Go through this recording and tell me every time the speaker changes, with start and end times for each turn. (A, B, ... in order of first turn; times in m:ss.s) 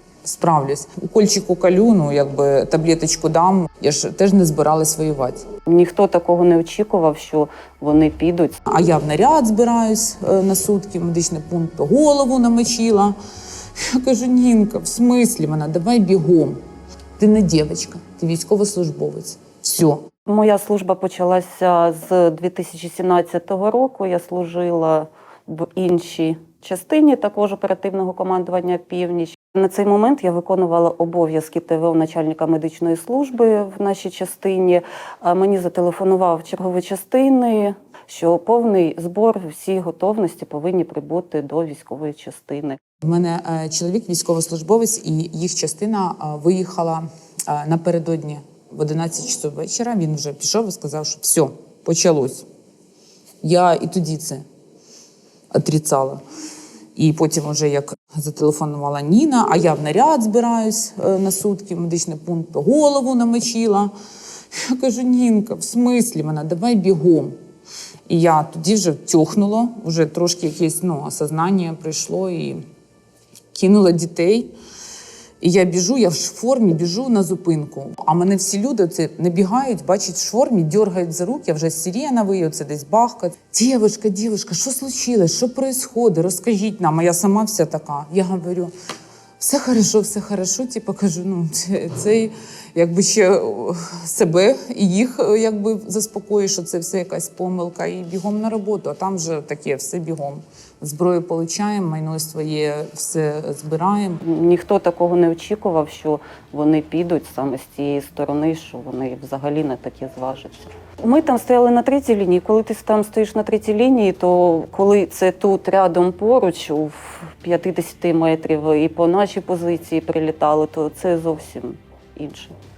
0:00.2-0:05.4 A
0:05.7-0:08.6 B
0:08.6-0:13.2 A
0:13.8-0:16.6 A
0:17.2-0:20.1 A
0:20.2-0:42.8 B
0:43.0-0:52.4 A
0:53.4-0:54.4 A
0:55.5-0:56.2 A
0:57.0-1:03.9 A
1:04.6-1:07.4 A
1:08.1-1:12.6 A
1:13.5-1:14.5 A
1:15.4-1:28.7 A
1:29.4-1:44.2 A
1:44.2-2:02.5 B